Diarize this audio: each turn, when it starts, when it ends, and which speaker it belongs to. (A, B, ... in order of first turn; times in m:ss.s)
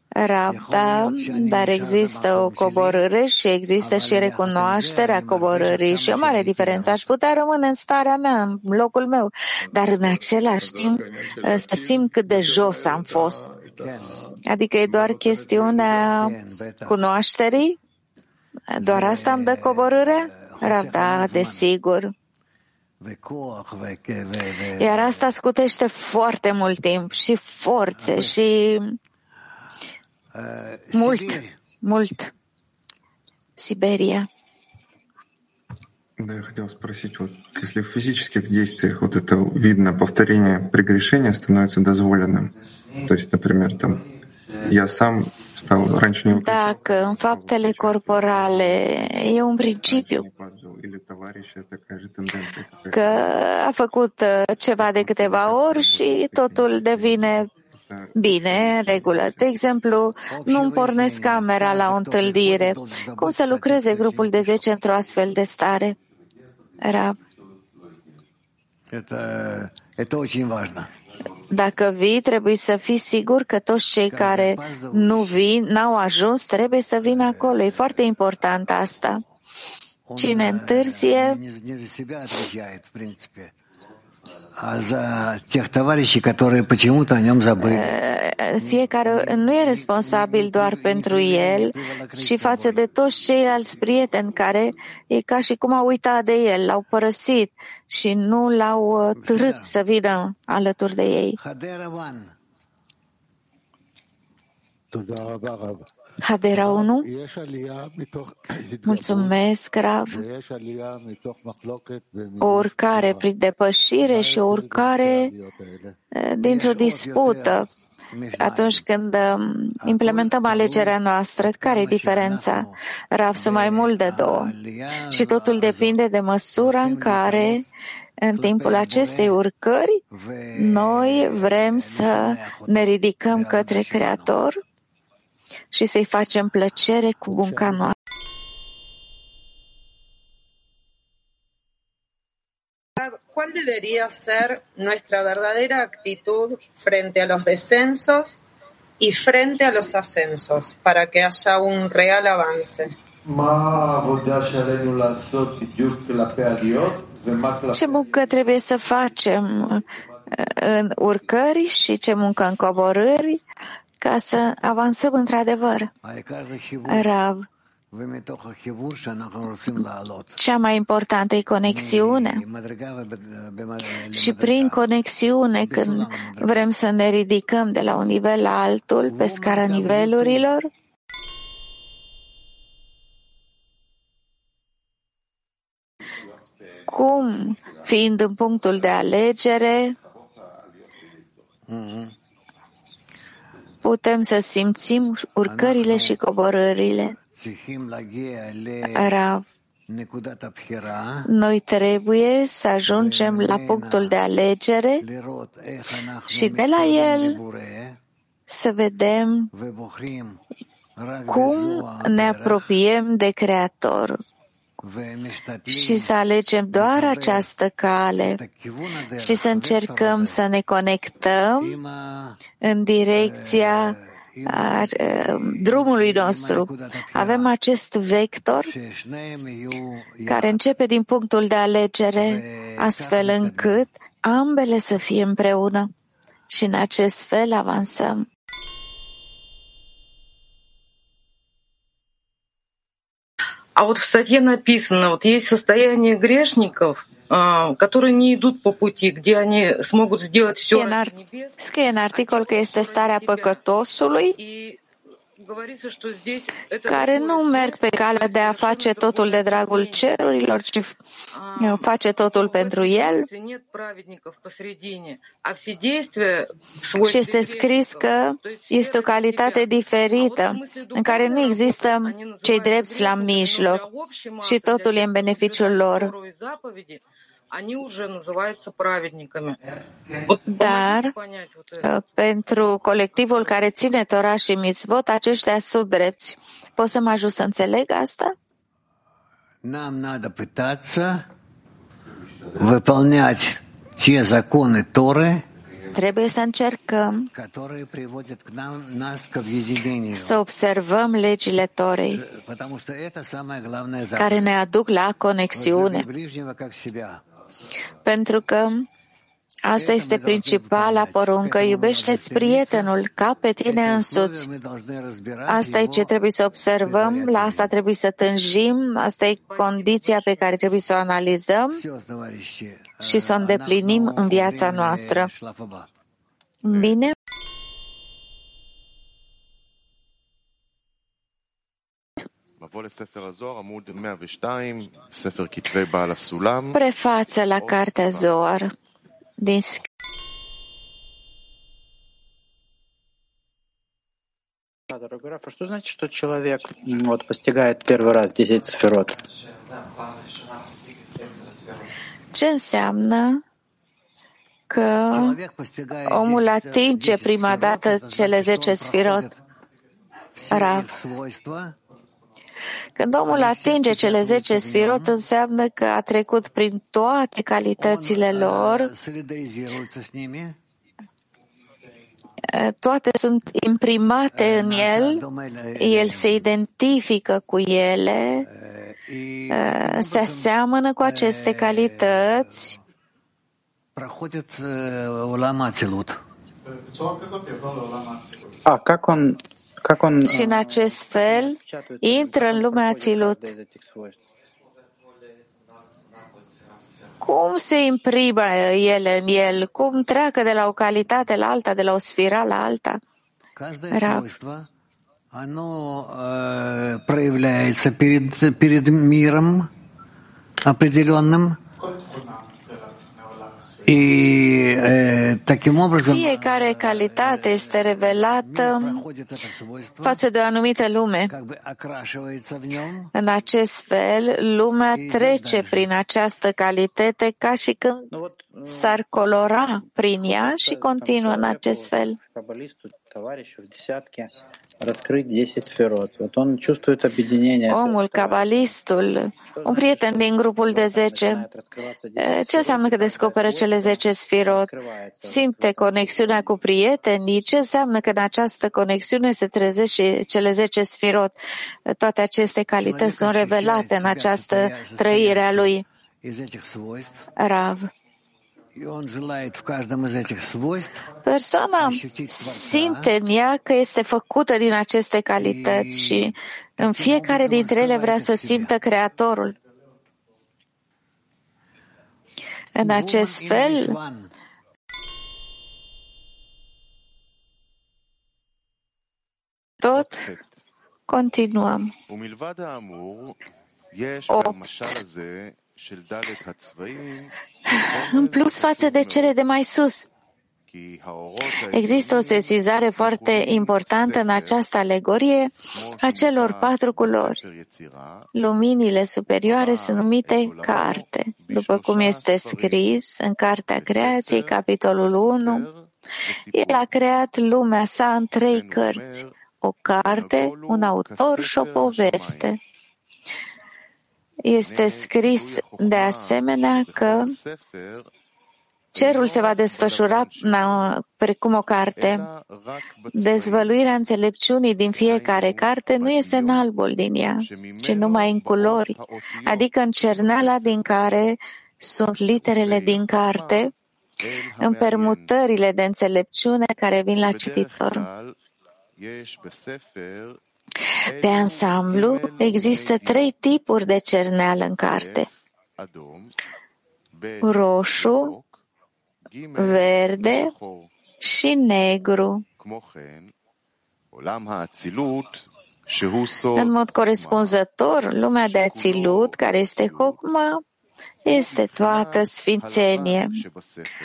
0:00.2-0:13.4 A
0:00.5-0:03.0 B
0:03.8-0:07.1 B
0:13.8-0:14.2 B
0:14.5-0:17.8 A
0:16.0-0:17.0 B
0:18.7-0:22.1 A
0:18.8-0:21.7 B
0:23.0-0:25.3 B
0:24.8-0:29.0 A
0:27.9-0:28.4 B
0:30.3-0:31.6 B
0:30.9-0:32.3 A
0:33.6-0:34.3 A
0:36.2-0:42.5 C
0:43.0-0:44.0 C
0:44.6-0:53.4 C
0:46.3-0:50.2 A
0:52.9-0:57.5 A
0:54.8-0:59.5 C
0:58.1-1:06.0 A
1:00.3-1:04.6 B
1:06.8-1:07.2 A
1:08.9-1:10.9 B
1:11.5-1:19.2 A
1:14.1-1:15.5 B
1:17.0-1:17.8 B
1:20.1-1:23.5 B
1:20.2-1:21.4 A
1:24.5-1:28.0 B
1:27.6-1:41.4 A
1:28.6-1:32.9 B
1:39.1-1:39.8 B
1:41.4-1:42.3 B
1:46.2-1:47.1 A
1:48.8-1:50.2 A
1:52.4-1:55.3 A
1:56.2-1:57.7 A
1:56.4-1:58.8 B
1:58.4-2:04.5 A
1:59.8-2:02.8 B
2:03.3-2:06.0 B
2:05.0-2:07.6 A
2:06.6-2:07.6 B
2:08.2-2:10.0 A
2:08.3-2:09.4 B
2:10.1-2:14.4 B
2:10.5-2:14.6 A
2:15.7-2:17.9 A
2:17.4-2:17.9 B
2:23.0-2:28.4 D
2:29.0-2:32.9 D
2:37.7-2:39.8 A
2:40.4-2:43.4 A
2:44.0-2:45.9 A
2:46.0-2:47.1 B
2:46.9-2:47.4 A
2:47.9-2:50.3 B
2:50.4-2:52.4 A
2:51.6-2:54.9 B
2:54.1-3:00.7 A
2:55.6-2:56.7 B
2:59.0-3:00.5 B
3:06.9-3:09.9 A
3:11.7-3:12.1 B
3:13.8-3:17.1 A
3:15.4-3:16.2 B
3:17.3-3:19.2 B
3:18.9-3:19.4 A
3:19.9-3:21.3 B
3:21.3-3:25.0 A
3:22.8-3:24.2 B
3:25.0-3:28.0 B
3:26.3-3:27.4 A
3:28.5-3:29.5 A
3:29.5-3:30.4 B
3:31.0-3:32.7 B
3:31.3-3:34.2 A
3:34.8-3:36.1 B
3:35.7-3:38.4 A
3:36.7-3:37.5 B
3:38.2-3:40.4 B
3:39.2-3:41.8 A
3:41.6-3:42.4 B
3:42.6-3:44.0 A
3:43.1-3:47.5 B
3:44.5-3:48.7 A
3:48.5-3:50.6 B
3:50.3-3:55.9 A
3:52.2-3:53.9 B
3:56.5-3:58.2 A
4:03.8-4:11.5 E
4:10.7-4:14.3 A
4:12.1-4:13.6 E
4:14.3-4:14.8 E
4:15.4-4:20.2 E
4:16.8-4:21.0 A
4:21.3-4:39.6 E
4:21.6-4:23.2 A
4:27.0-4:33.8 A
4:34.4-4:36.1 A
4:40.3-4:41.9 E
4:40.5-4:41.1 A
4:41.8-4:48.3 A
4:49.6-4:51.2 B
4:52.6-4:55.4 B
4:55.9-4:57.3 A
4:57.3-5:00.4 B
5:00.1-5:02.2 A
5:02.1-5:04.6 B
5:04.2-5:06.0 A
5:05.5-5:07.2 B
5:08.0-5:08.8 A
5:09.7-5:14.4 A
5:09.7-5:12.9 B
5:13.6-5:16.1 B
5:15.5-5:21.8 A
5:16.8-5:17.7 B
5:19.4-5:20.7 E
5:21.7-5:25.9 B
5:23.0-5:25.3 A
5:26.6-5:27.1 A
5:36.7-5:38.7 A
5:39.4-5:39.8 A
5:44.9-5:49.2 F
5:52.3-5:53.4 A
5:54.7-5:55.4 A
5:55.1-5:59.3 B
5:56.0-5:59.3 A
6:00.3-6:01.7 B
6:00.5-6:00.9 A
6:03.0-6:08.9 A
6:03.2-6:05.2 B
6:07.8-6:10.6 B
6:12.5-6:15.2 A
6:14.3-6:16.4 B
6:15.8-6:18.4 A
6:18.4-6:22.8 B
6:19.5-6:22.7 A
6:23.9-6:26.2 B
6:28.6-6:34.2 F
6:30.2-6:33.5 A
6:37.2-6:43.0 A
6:43.5-6:44.7 B
6:43.9-6:44.2 A
6:45.3-6:49.7 B
6:50.6-6:51.6 B
6:53.8-7:00.2 B
6:56.0-6:59.0 A
7:00.0-7:01.3 A
7:01.3-7:03.1 B
7:03.1-7:08.1 A
7:04.9-7:05.9 B
7:08.1-7:09.0 F
7:08.6-7:12.2 A
7:10.2-7:18.7 F
7:17.7-7:21.4 A
7:19.4-7:26.5 F
7:22.2-7:24.7 A
7:25.2-7:31.3 A
7:31.9-7:35.8 A
7:32.8-7:37.3 B
7:37.4-7:37.9 A
7:38.7-7:41.0 B
7:41.2-7:49.5 A
7:41.8-7:43.1 B
7:45.4-7:48.7 B
7:52.8-7:53.9 A
7:52.8-7:54.3 B
7:59.8-8:00.3 A
8:01.1-8:01.9 A
8:04.3-8:05.0 A
8:07.7-8:10.0 A
8:11.5-8:17.4 A
8:18.4-8:25.7 A
8:26.5-8:32.6 A
8:34.4-8:37.3 A
8:38.9-8:42.3 A
8:43.1-8:53.7 A
8:54.6-8:58.1 A
9:01.2-9:05.3 A
9:07.4-9:08.4 A
9:09.6-9:10.5 A
9:11.2-9:12.4 A
9:16.5-9:20.6 A
9:21.2-9:23.4 A